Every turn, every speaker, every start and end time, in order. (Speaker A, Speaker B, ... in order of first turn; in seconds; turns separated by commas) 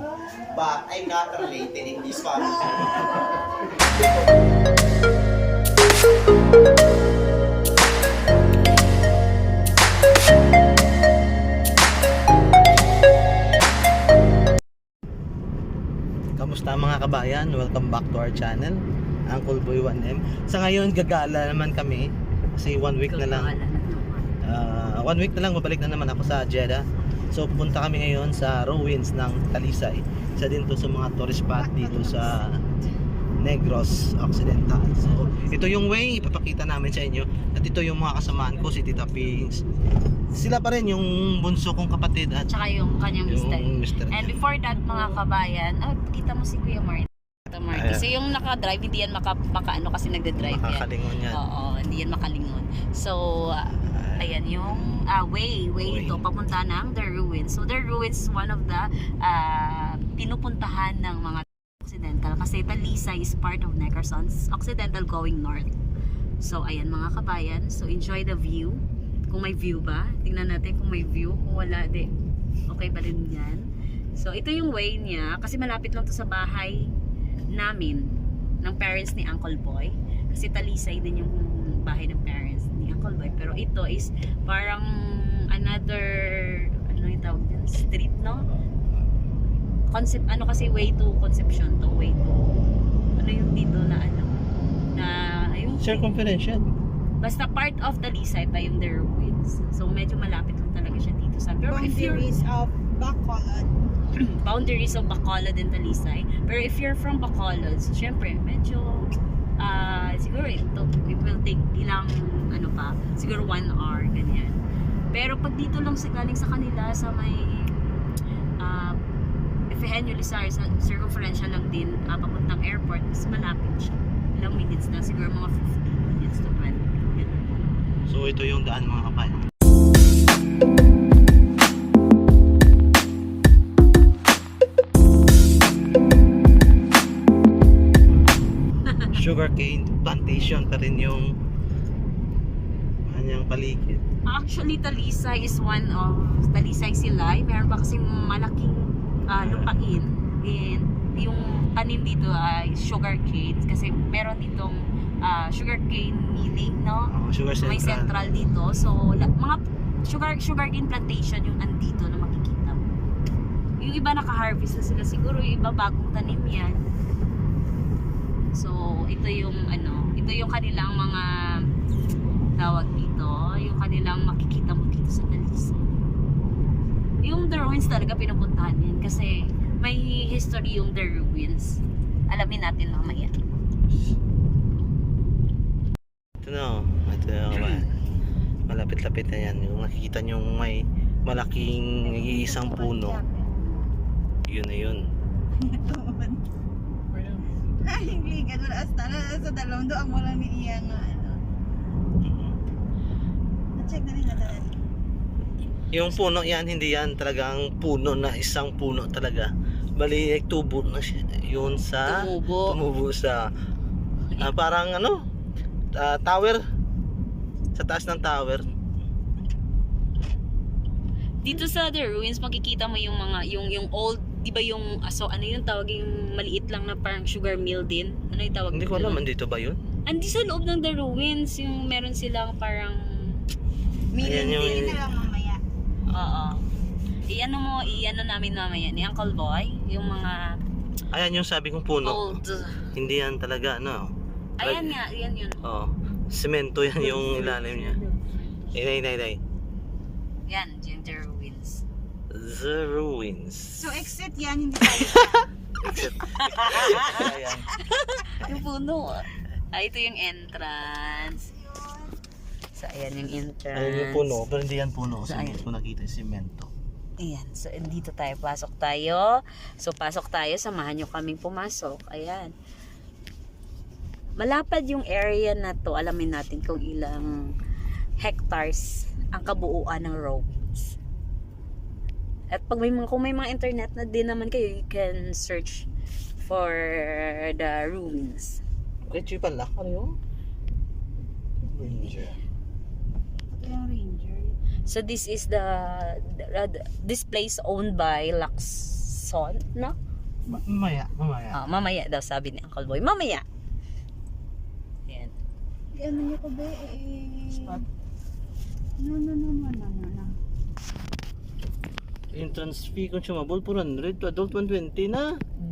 Speaker A: 0.5-3.1, Speaker B: 16.4-23.5, Speaker C: 23.0-24.4, Speaker B: 24.4-32.6, Speaker B: 33.4-39.6, Speaker B: 40.4-42.5, Speaker C: 42.5-65.7, Speaker B: 43.3-44.4, Speaker B: 47.7-48.1, Speaker B: 50.4-51.4, Speaker B: 54.0-54.2, Speaker B: 55.9-56.2, Speaker C: 66.4-72.1, Speaker C: 72.7-73.6, Speaker C: 74.2-76.8, Speaker C: 77.5-78.1, Speaker C: 78.6-84.9, Speaker C: 85.5-88.4, Speaker C: 89.9-92.6, Speaker C: 93.2-94.4, Speaker C: 95.0-96.1, Speaker B: 95.8-96.7, Speaker C: 97.2-102.3, Speaker D: 101.7-103.7, Speaker C: 104.2-109.1, Speaker C: 109.6-114.6, Speaker C: 115.1-117.9, Speaker C: 118.6-119.0, Speaker C: 119.7-127.4, Speaker B: 128.1-129.4, Speaker B: 139.1-141.3, Speaker B: 143.1-144.0, Speaker C: 144.3-162.8, Speaker B: 149.3-149.8, Speaker B: 157.1-158.2, Speaker C: 163.8-166.8, Speaker C: 168.6-171.3, Speaker C: 172.6-175.8, Speaker C: 177.2-183.3, Speaker B: 186.4-187.9, Speaker C: 187.6-187.8, Speaker B: 188.7-193.2, Speaker D: 192.0-193.5, Speaker B: 194.5-195.1, Speaker D: 195.6-196.4, Speaker D: 197.8-201.4, Speaker B: 202.2-202.6, Speaker D: 203.8-204.8, Speaker B: 205.9-213.5, Speaker C: 212.1-212.8, Speaker B: 214.4-215.2, Speaker B: 215.9-216.6, Speaker B: 217.8-218.7, Speaker C: 221.4-229.2, Speaker B: 228.7-229.8, Speaker C: 230.1-233.0, Speaker C: 234.1-234.9, Speaker B: 234.2-235.0, Speaker D: 234.2-235.6, Speaker C: 236.1-236.6, Speaker C: 237.3-240.5, Speaker B: 241.1-242.4, Speaker C: 242.0-242.8, Speaker B: 242.9-245.0, Speaker C: 244.6-245.7, Speaker B: 245.6-248.0, Speaker B: 248.7-249.4, Speaker C: 250.5-251.8, Speaker B: 252.3-254.1, Speaker D: 253.8-255.5, Speaker B: 255.8-257.7, Speaker C: 256.4-257.3, Speaker C: 258.0-261.5, Speaker D: 261.7-262.1, Speaker C: 262.8-264.4, Speaker B: 263.8-266.7, Speaker C: 265.2-265.6, Speaker C: 267.2-272.5, Speaker C: 274.4-277.5, Speaker C: 278.2-281.0, Speaker C: 282.5-285.9, Speaker C: 286.4-288.6, Speaker B: 289.1-290.1, Speaker B: 291.7-292.4, Speaker D: 293.6-294.6, Speaker C: 294.9-300.0, Speaker B: 300.5-301.6, Speaker C: 301.5-303.4, Speaker C: 305.1-305.3, Speaker D: 305.9-307.9, Speaker D: 309.0-310.3, Speaker B: 312.3-315.3